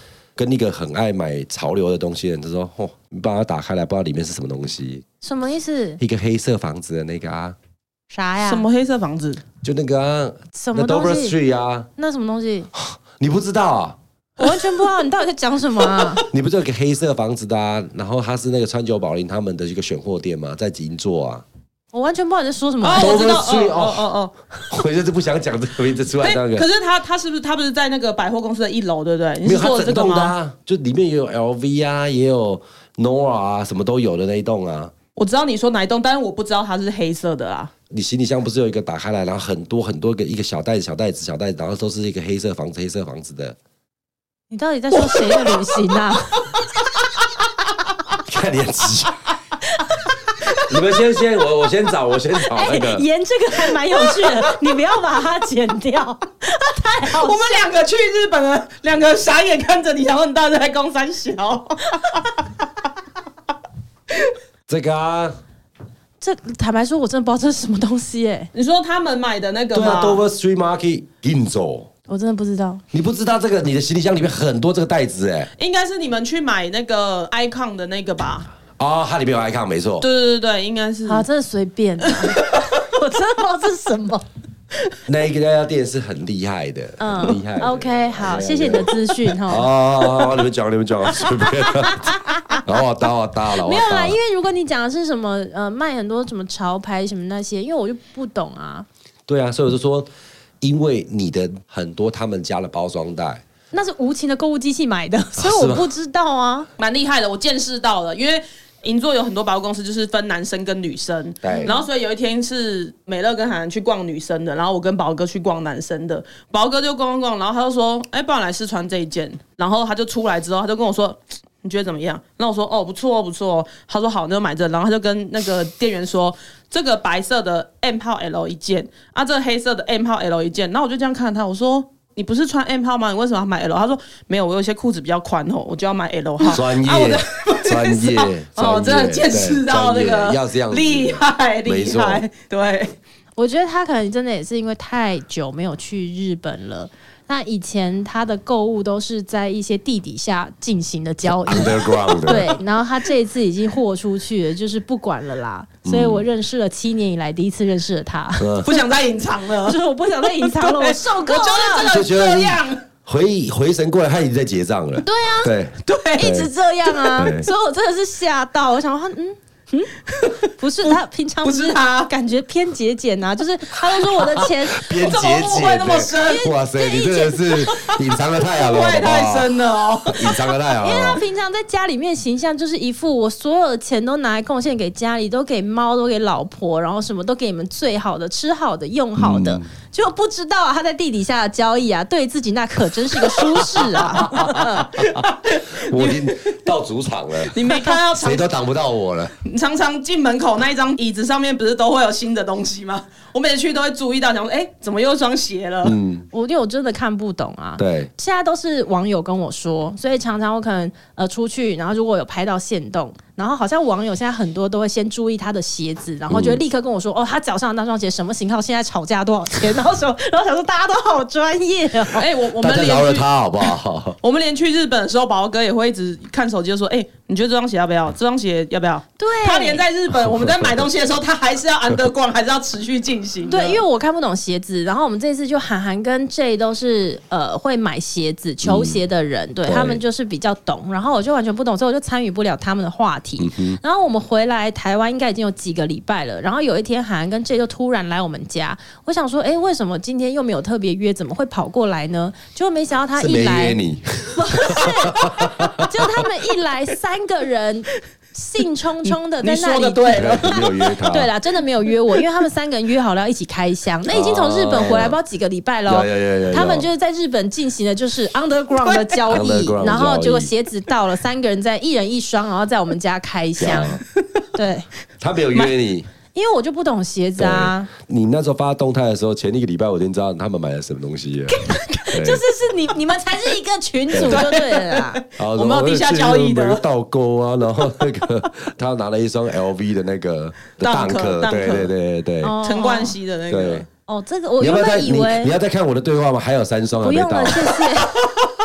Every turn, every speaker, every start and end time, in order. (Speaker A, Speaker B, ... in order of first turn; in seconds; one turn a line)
Speaker A: 0.4-5.0
Speaker B: 5.2-6.0
Speaker A: 6.0-7.5
Speaker B: 8.1-8.6
Speaker C: 8.4-9.4
Speaker A: 9.6-11.9
Speaker B: 10.5-11.4
Speaker B: 12.0-12.7
Speaker A: 12.7-14.0
Speaker B: 14.4-16.2
Speaker C: 14.4-14.7
Speaker A: 16.3-21.4
Speaker B: 21.9-23.3
Speaker C: 22.8-24.3
Speaker A: 22.9-24.1
Speaker A: 24.7-26.7
Speaker C: 26.2-30.3
Speaker A: 29.4-34.9
Speaker C: 35.1-37.7
Speaker A: 37.9-43.5
Speaker B: 44.5-46.5
Speaker C: 45.0-45.6
Speaker A: 48.2-49.2
Speaker A: 50.6-53.0
Speaker B: 52.4-57.6
Speaker C: 54.1-54.5
Speaker C: 57.1-62.4
Speaker A: 64.7-65.3
Speaker B: 66.2-68.5
Speaker C: 68.5-70.2
Speaker A: 69.7-71.9
Speaker B: 72.1-72.8
Speaker A: 72.9-75.5
Speaker C: 75.6-78.5
Speaker A: 78.8-80.0
Speaker C: 80.0-81.2
Speaker B: 81.0-84.2
Speaker C: 82.1-82.5
Speaker A: 85.0-94.2
Speaker B: 87.0-89.7
Speaker B: 91.5-92.6
Speaker B: 93.5-98.9
Speaker A: 99.3-100.1
Speaker A: 100.6-103.4
Speaker B: 103.7-106.7
Speaker A: 105.4-105.9
Speaker C: 106.8-142.9
Speaker A: 111.4-111.7
Speaker B: 111.5-111.8
Speaker A: 136.4-142.2
Speaker B: 143.4-158.8
Speaker A: 151.3-152.6
Speaker C: 152.0-152.4
Speaker A: 155.8-156.2
Speaker A: 158.4-158.7
Speaker C: 158.6-162.8
Speaker B: 159.6-161.9
Speaker A: 161.9-166.5
Speaker B: 165.0-165.5
Speaker C: 165.8-166.3
Speaker B: 166.2-174.9
Speaker A: 167.1-167.5
Speaker C: 171.4-172.1
Speaker A: 174.8-179.5
Speaker C: 174.9-176.5
Speaker B: 176.2-177.9
Speaker C: 178.4-180.6
Speaker A: 180.1-181.2
Speaker B: 180.8-194.9
Speaker A: 189.2-189.7
Speaker A: 193.8-199.3
Speaker C: 194.3-196.6
Speaker C: 197.5-198.5
Speaker B: 197.7-198.0
Speaker C: 199.4-206.0
Speaker A: 205.8-206.3
Speaker B: 206.3-222.2
Speaker A: 207.8-208.1
Speaker A: 216.3-216.6
Speaker C: 222.2-233.8
Speaker A: 222.6-224.2
Speaker B: 229.2-229.8
Speaker A: 230.4-230.7
Speaker B: 233.5-253.8
Speaker A: 238.6-239.0
Speaker A: 239.7-240.0
Speaker A: 243.4-243.8
Speaker A: 253.2-255.9
Speaker B: 254.3-260.5
Speaker C: 259.0-261.0
Speaker A: 260.1-261.3
Speaker B: 261.1-274.0
Speaker A: 264.1-265.2
Speaker A: 265.9-266.9
Speaker A: 269.3-270.5
Speaker A: 273.6-274.0
Speaker B: 274.5-274.9
Speaker A: 275.2-276.1
Speaker B: 276.3-277.9
Speaker A: 277.4-282.4
Speaker B: 281.5-285.2
Speaker A: 284.1-284.5
Speaker C: 284.2-286.8
Speaker A: 285.4-292.6
Speaker C: 290.8-291.9
Speaker B: 292.4-293.1
Speaker C: 292.6-293.9
Speaker A: 293.5-293.9
Speaker B: 294.1-295.5
Speaker A: 294.6-297.9
Speaker B: 297.0-298.2